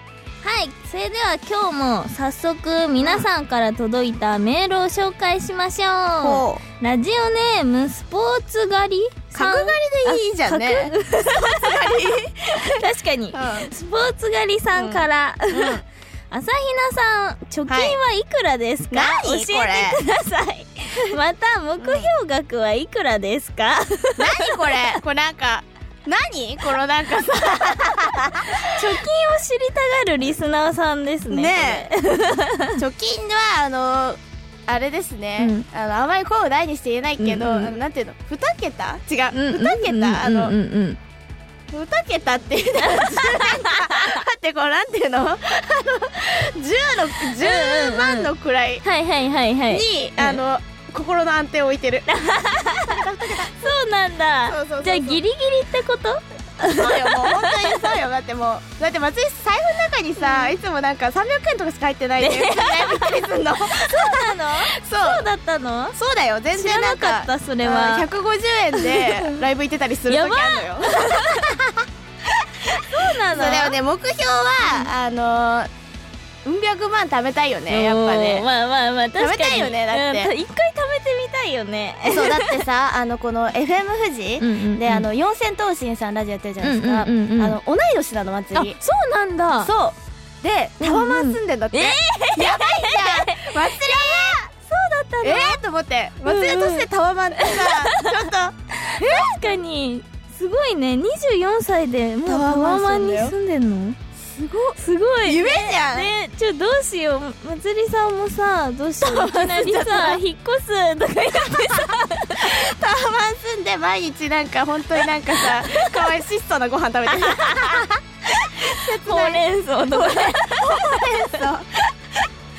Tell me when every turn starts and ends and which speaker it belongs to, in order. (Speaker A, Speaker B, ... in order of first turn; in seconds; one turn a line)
Speaker A: 0.4-12.0
Speaker B: 6.2-6.6
Speaker B: 9.3-13.7
Speaker A: 12.7-15.8
Speaker B: 14.8-15.8
Speaker A: 16.3-24.8
Speaker B: 17.7-18.0
Speaker B: 18.9-20.0
Speaker B: 21.8-22.1
Speaker B: 24.2-28.6
Speaker A: 28.6-32.8
Speaker B: 31.3-31.9
Speaker B: 32.8-40.5
Speaker A: 35.4-35.6
Speaker A: 37.2-37.7
Speaker A: 39.3-41.0
Speaker B: 41.7-48.8
Speaker A: 42.8-44.2
Speaker A: 47.4-48.3
Speaker A: 48.8-50.4
Speaker B: 49.7-52.1
Speaker A: 52.1-53.0
Speaker B: 52.8-53.6
Speaker A: 53.5-58.0
Speaker B: 54.5-55.2
Speaker B: 56.6-65.2
Speaker A: 60.2-60.5
Speaker A: 62.2-66.0
Speaker B: 66.0-75.7
Speaker A: 66.5-68.1
Speaker A: 68.8-69.3
Speaker A: 70.1-71.6
Speaker A: 72.7-73.8
Speaker B: 76.4-78.5
Speaker A: 77.7-82.5
Speaker B: 79.2-80.3
Speaker B: 82.1-88.8
Speaker A: 84.4-85.0
Speaker A: 86.6-87.6
Speaker A: 88.5-89.7
Speaker B: 89.6-94.5
Speaker A: 90.8-95.6
Speaker B: 95.2-99.3
Speaker A: 96.2-96.8
Speaker A: 97.4-98.1
Speaker A: 98.8-104.0
Speaker B: 102.2-103.3
Speaker B: 104.2-106.1
Speaker A: 104.8-112.6
Speaker B: 109.0-110.2
Speaker B: 112.4-122.2
Speaker A: 115.7-116.0
Speaker A: 117.1-117.8
Speaker A: 118.6-121.1